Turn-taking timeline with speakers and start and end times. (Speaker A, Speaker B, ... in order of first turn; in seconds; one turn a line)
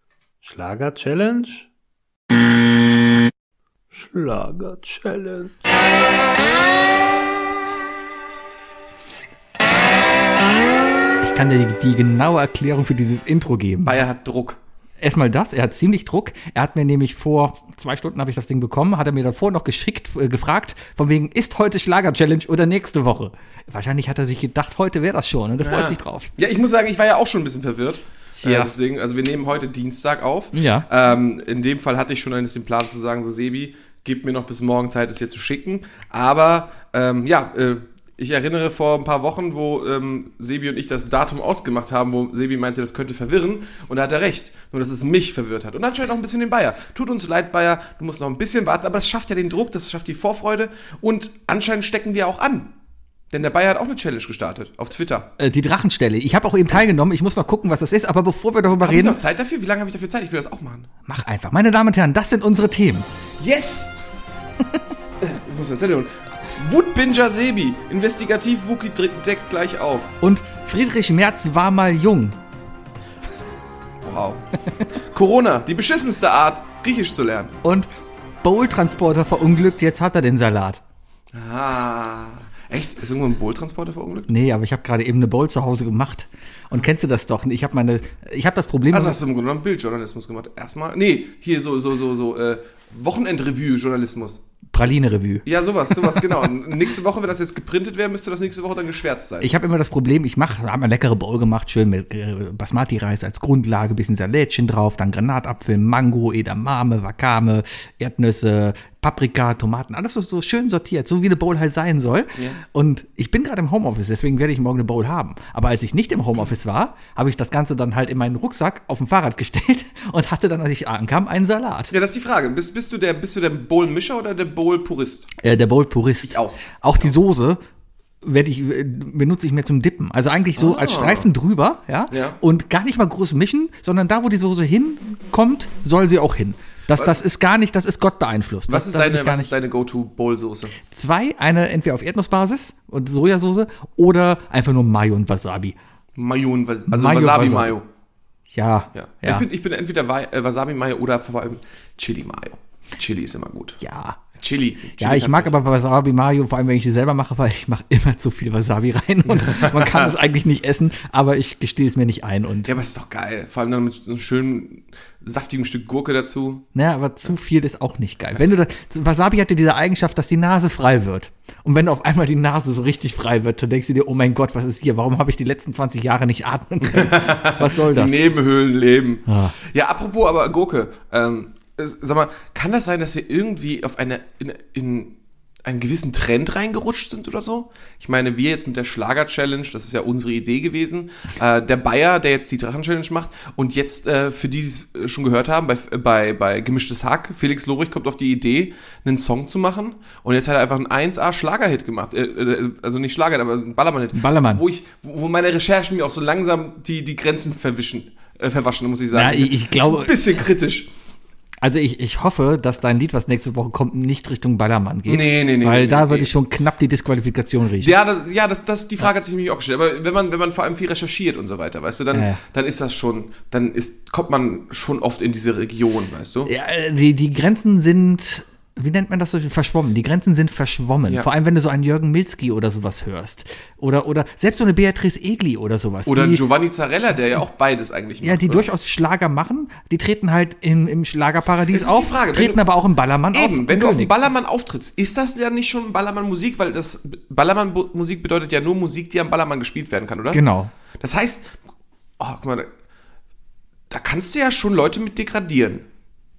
Speaker A: 0.4-1.7
Speaker A: 3.9-5.6
Speaker B: 11.2-14.0
Speaker C: 13.8-14.6
Speaker B: 15.0-26.3
Speaker C: 25.6-52.7
Speaker B: 28.3-28.7
Speaker B: 30.5-30.9
Speaker C: 53.3-55.3
Speaker B: 55.4-59.2
Speaker C: 58.8-60.9
Speaker B: 61.1-63.1
Speaker C: 63.4-63.9
Speaker C: 65.2-70.2
Speaker B: 70.2-72.4
Speaker C: 74.0-74.4
Speaker C: 75.0-77.5
Speaker B: 78.4-80.8
Speaker C: 81.3-84.3
Speaker B: 84.3-89.2
Speaker C: 88.9-94.4
Speaker B: 94.7-96.2
Speaker C: 95.5-99.5
Speaker B: 99.4-121.9
Speaker C: 121.9-125.3
Speaker B: 125.4-127.6
Speaker C: 126.2-127.1
Speaker B: 128.2-139.5
Speaker C: 130.6-131.3
Speaker C: 132.1-132.4
Speaker C: 138.7-140.8
Speaker B: 140.9-145.8
Speaker C: 146.2-147.9
Speaker B: 146.9-147.7
Speaker B: 148.5-149.5
Speaker C: 148.9-153.8
Speaker B: 153.8-154.2
Speaker C: 154.3-155.6
Speaker B: 155.0-162.7
Speaker C: 159.3-160.1
Speaker C: 162.7-166.7
Speaker B: 166.7-178.3
Speaker C: 176.8-210.9
Speaker B: 179.3-179.6
Speaker B: 204.1-204.6
Speaker B: 209.1-210.1
Speaker B: 211.6-218.0
Speaker C: 215.1-216.3
Speaker C: 217.8-226.5
Speaker B: 222.1-222.4
Speaker B: 226.5-236.4
Speaker C: 236.1-238.7
Speaker B: 238.2-244.2
Speaker C: 241.7-242.6
Speaker C: 243.3-250.4
Speaker B: 250.3-250.7
Speaker C: 251.0-251.6
Speaker C: 252.2-252.7
Speaker C: 253.9-255.9